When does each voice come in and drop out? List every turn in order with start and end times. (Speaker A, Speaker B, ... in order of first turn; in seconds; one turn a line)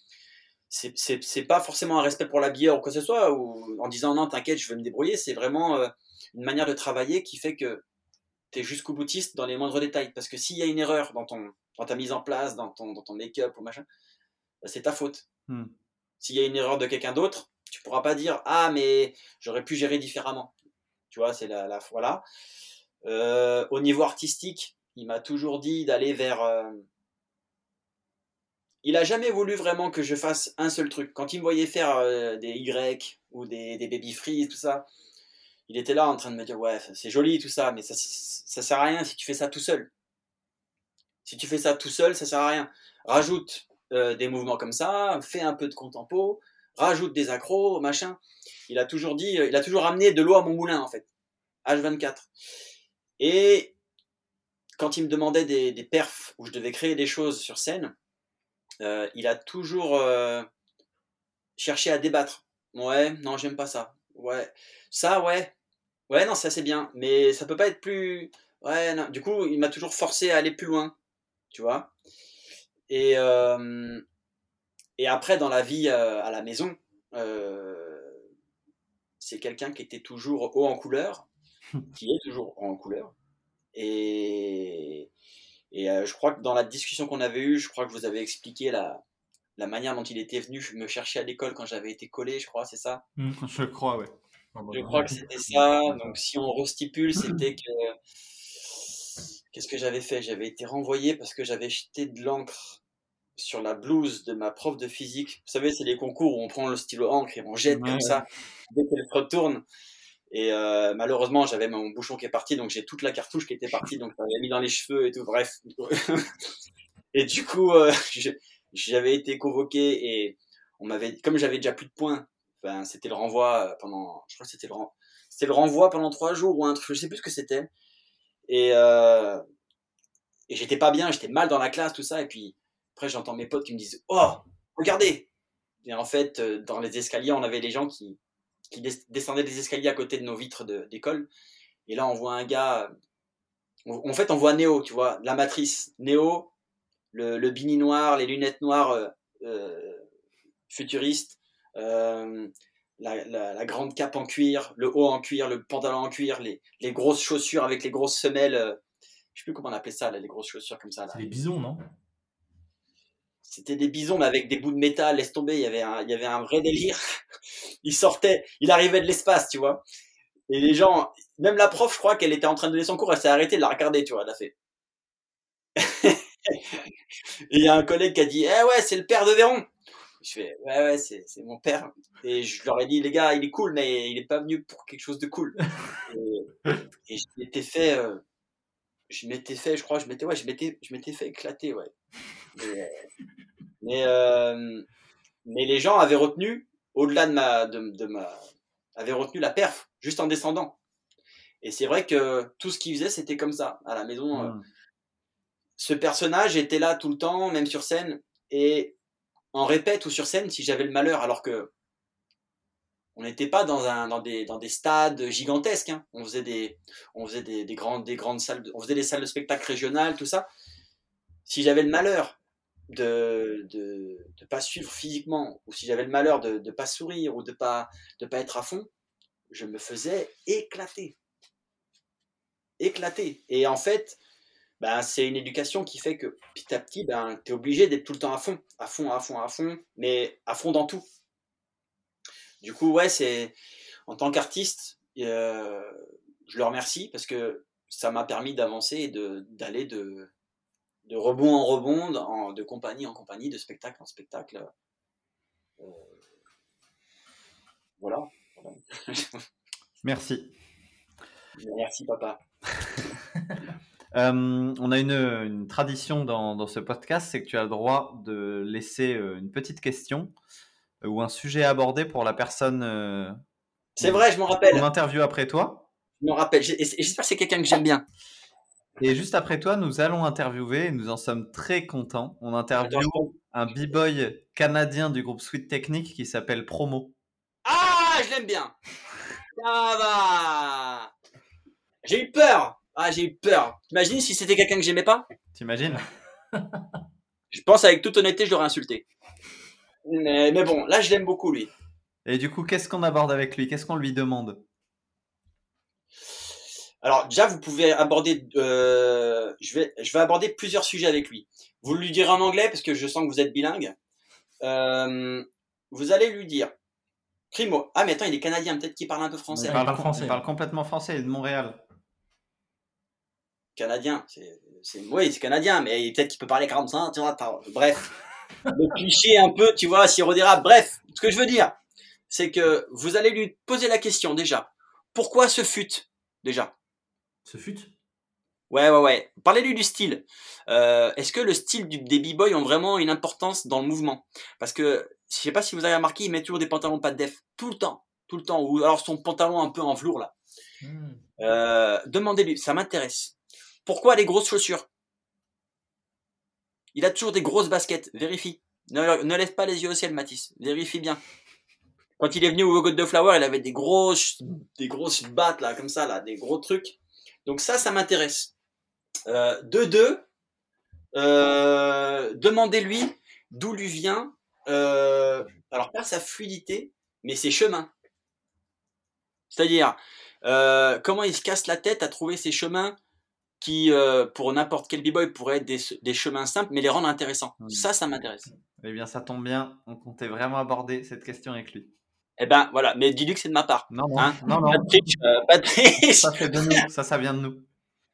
Speaker A: 0.7-7.8
Speaker A: 8.5-13.8
Speaker A: 14.6-15.2
Speaker B: 15.5-15.7
Speaker A: 16.2-20.5
Speaker A: 21.1-22.2
Speaker A: 23.0-26.9
Speaker A: 28.8-34.9
Speaker A: 35.7-39.9
Speaker A: 41.2-51.1
Speaker A: 51.6-52.3
Speaker A: 53.2-53.7
Speaker A: 54.8-57.9
Speaker A: 58.8-60.5
Speaker A: 61.6-65.5
Speaker A: 66.1-70.9
Speaker A: 71.5-71.9
Speaker A: 72.9-74.0
Speaker A: 75.0-78.2
Speaker A: 79.2-81.3
Speaker A: 81.9-83.1
Speaker A: 83.7-85.1
Speaker A: 85.7-89.0
Speaker A: 89.6-93.0
Speaker B: 93.4-94.1
Speaker C: 94.5-96.1
Speaker A: 94.7-97.9
Speaker A: 99.5-102.8
Speaker A: 103.4-109.6
Speaker B: 107.7-108.2
Speaker A: 110.3-116.3
Speaker A: 117.1-127.7
Speaker A: 128.5-129.4
Speaker A: 130.5-135.3
Speaker A: 135.8-138.2
Speaker A: 138.7-141.3
Speaker A: 141.9-142.9
Speaker A: 143.8-146.5
Speaker A: 147.1-150.0
Speaker A: 150.7-158.8
Speaker A: 159.3-161.2
Speaker C: 161.1-161.8
Speaker A: 163.4-167.0
Speaker A: 167.8-169.8
Speaker A: 170.5-174.5
Speaker A: 175.8-176.9
Speaker A: 177.5-179.7
Speaker A: 180.2-188.2
Speaker A: 189.1-191.9
Speaker A: 192.6-192.9
Speaker A: 193.8-194.8
Speaker A: 195.4-198.4
Speaker A: 198.9-200.8
Speaker A: 201.6-204.5
Speaker B: 204.3-204.6
Speaker A: 205.8-209.0
Speaker A: 209.5-211.7
Speaker A: 213.1-220.5
Speaker A: 221.4-222.4
Speaker A: 222.9-228.9
Speaker A: 229.5-231.2
Speaker A: 232.8-234.2
Speaker A: 234.8-241.1
Speaker A: 242.6-243.5
Speaker A: 244.1-250.3
Speaker A: 251.1-254.7
Speaker A: 255.8-256.2
Speaker A: 258.0-259.4
Speaker B: 260.0-260.6
Speaker A: 261.6-262.4
Speaker B: 264.1-270.3
Speaker B: 271.0-273.4
Speaker A: 273.9-274.8
Speaker B: 274.0-275.9
Speaker A: 276.2-278.0
Speaker B: 279.0-287.1
Speaker A: 282.8-283.3
Speaker A: 287.6-288.8
Speaker A: 289.6-291.1
Speaker A: 292.0-295.3
Speaker B: 295.5-296.0
Speaker A: 297.5-299.1
Speaker A: 300.0-301.7
Speaker B: 302.2-304.6
Speaker A: 307.0-313.9
Speaker A: 314.6-316.7
Speaker A: 317.5-319.8
Speaker B: 319.5-321.8
Speaker C: 319.6-320.4
Speaker A: 323.8-328.1
Speaker A: 328.7-331.8
Speaker A: 332.3-336.7
Speaker C: 337.4-337.9
Speaker A: 338.7-350.3
Speaker C: 350.8-351.2
Speaker A: 351.4-353.3
Speaker A: 353.9-354.9
Speaker A: 356.9-361.2
Speaker A: 362.2-368.5
Speaker A: 369.3-370.2
Speaker A: 371.1-377.9
Speaker A: 379.5-382.9
Speaker A: 383.6-388.5
Speaker B: 387.6-387.9
Speaker B: 388.8-391.9
Speaker A: 392.4-396.8
Speaker B: 393.9-395.0
Speaker B: 396.1-397.6